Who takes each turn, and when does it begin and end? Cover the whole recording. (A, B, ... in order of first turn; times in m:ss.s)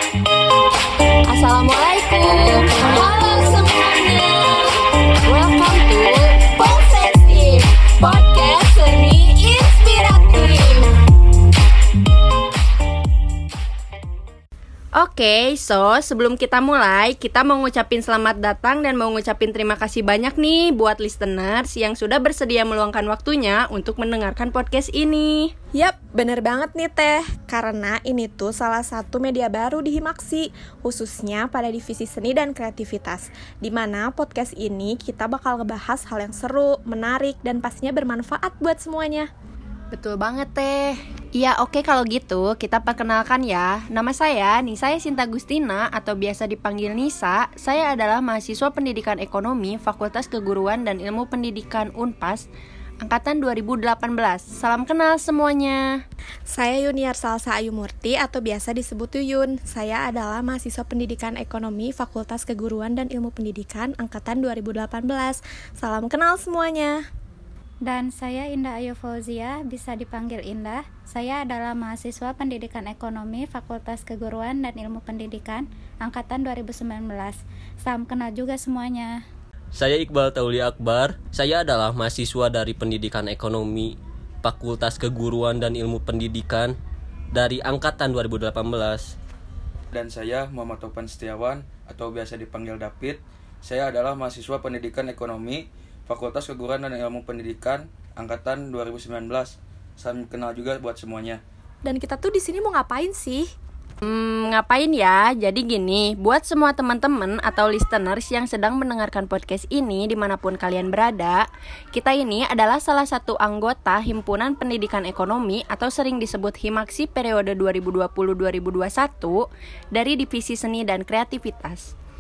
0:01.2-0:10.9 A
0:15.0-0:25.5 A
0:25.8-0:39.3 B
0:39.9-0:52.5 A
0:53.0-0:56.0 A
0:56.5-1:07.0 B
1:07.9-1:19.2 C
1:19.7-1:26.7 D
1:27.3-1:29.2 D
1:29.9-1:41.4 E
1:41.8-1:43.5 B
1:44.0-2:01.9 A